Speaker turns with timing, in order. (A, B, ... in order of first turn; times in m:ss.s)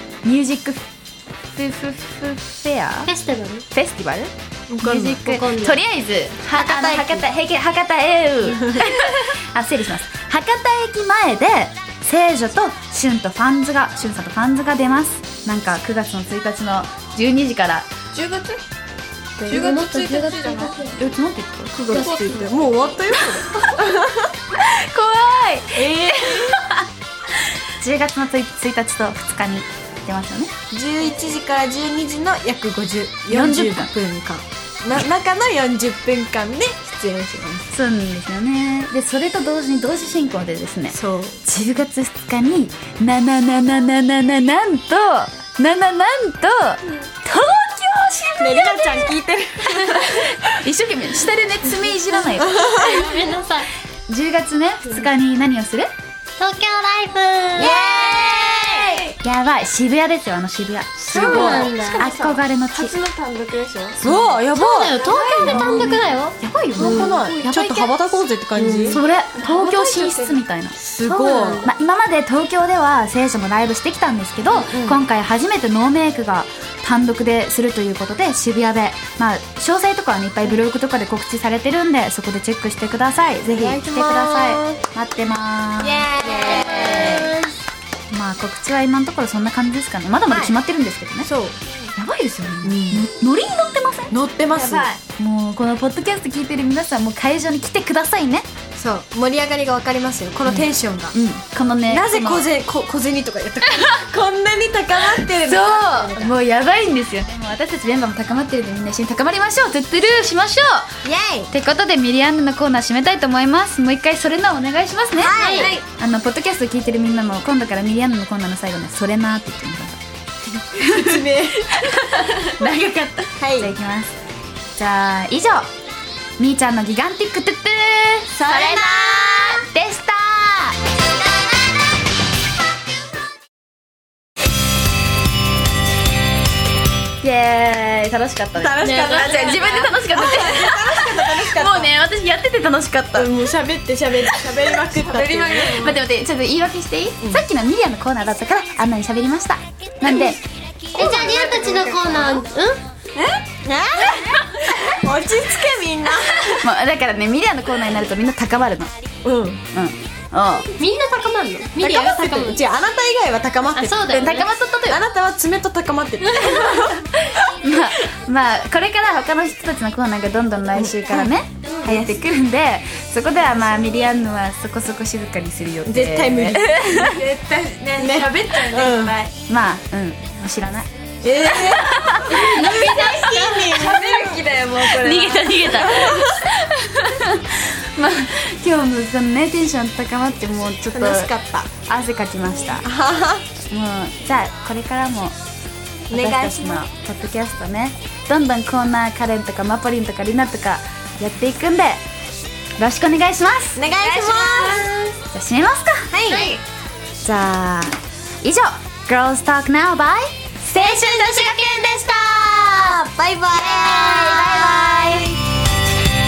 0:00.2-0:00.9 A
0:01.5-0:03.1 A
0:03.1-0:03.6 B
0:03.7-0:17.9 A
0:04.7-0:05.4 C
0:05.2-0:05.8 B
0:06.6-0:07.3 C
0:18.1-0:18.6 D
0:19.4-0:19.7 C
0:19.5-0:20.8 D
0:19.5-0:21.0 B
0:20.9-0:22.0 A
0:21.7-0:24.3 C
0:21.9-0:22.5 B
0:21.9-0:22.8 D
0:24.5-0:26.9 A
0:25.8-0:26.6 C
0:27.8-0:30.5 A
0:30.7-0:37.7 C
0:33.3-0:33.9 A
0:37.7-0:49.2 A
0:40.9-0:41.4 C
0:48.4-0:50.3 C
0:49.9-0:52.9 A
0:52.3-0:53.1 C
0:52.5-0:53.7 B
0:54.1-0:55.9 A
0:56.4-0:58.1 B
0:57.6-0:59.1 C
0:59.2-1:02.9 A
1:01.0-1:02.4 C
1:01.1-1:02.1 B
1:01.1-1:02.1 D
1:02.7-1:04.0 D
1:03.9-1:05.1 C
1:04.0-1:04.4 A
1:04.5-1:07.9 B
1:05.0-1:06.0 D
1:05.1-1:07.8 A
1:06.8-1:10.2 C
1:06.8-1:07.4 D
1:08.5-1:09.0 B
1:08.9-1:27.4 A
1:09.4-1:10.3 D
1:10.8-1:11.7 C
1:11.4-1:11.7 B
1:14.5-1:15.0 C
1:23.4-1:24.8 C
1:25.8-1:27.3 C
1:26.2-1:27.5 B
1:28.1-1:31.3 A
1:30.3-1:30.6 C
1:31.2-1:31.9 C
1:32.0-1:38.5 A
1:32.6-1:33.1 C
1:34.1-1:35.0 C
1:38.8-1:41.2 C
1:40.5-1:42.5 A
1:41.9-1:46.4 C
1:45.4-1:50.9 A
1:51.0-1:51.5 C
1:51.5-2:00.0 A
1:55.2-1:55.8 C
1:55.4-1:55.8 B
2:00.7-2:04.2 A
2:00.7-2:01.8 C
2:03.4-2:03.7 C
2:04.8-2:05.7 A
2:06.4-2:10.8 A
2:08.4-2:09.6 C
2:17.2-2:23.3 A
2:18.6-2:21.9 C
2:18.8-2:19.6 B
2:23.2-2:25.8 C
2:24.8-2:26.0 D
2:25.7-2:30.4 A
2:30.0-2:30.3 C
2:31.0-2:32.8 B
2:31.0-2:32.4 D
2:33.6-2:36.7 C
2:36.5-2:38.9 A
2:39.2-2:39.6 C
2:39.7-2:40.7 A
2:40.8-2:42.6 B
2:41.8-2:44.2 C
2:43.7-2:44.6 B
2:44.1-2:45.0 A
2:44.9-2:47.1 C
2:47.3-2:57.2 A
2:50.8-2:52.2 C
2:55.8-2:57.4 C
2:56.9-2:59.3 D
2:57.9-2:59.2 C
2:59.5-3:00.9 A
3:01.2-3:01.9 C
3:01.4-3:02.7 A
3:02.3-3:03.8 B
3:02.5-3:04.6 C
3:02.9-3:05.8 D
3:04.8-3:11.3 A
3:05.7-3:06.4 C
3:10.9-3:11.7 C
3:11.8-3:12.9 A
3:12.8-3:13.5 C
3:13.7-3:15.4 A
3:16.1-3:16.9 C
3:16.1-3:22.0 A
3:22.8-3:23.8 A
3:23.8-3:25.0 C
3:24.0-3:24.9 D
3:25.3-3:26.1 A
3:26.1-3:26.6 C
3:26.3-3:26.6 B
3:27.2-3:31.1 A
3:30.8-3:33.0 B
3:31.0-3:31.6 C
3:32.6-3:35.4 C
3:33.5-3:35.3 B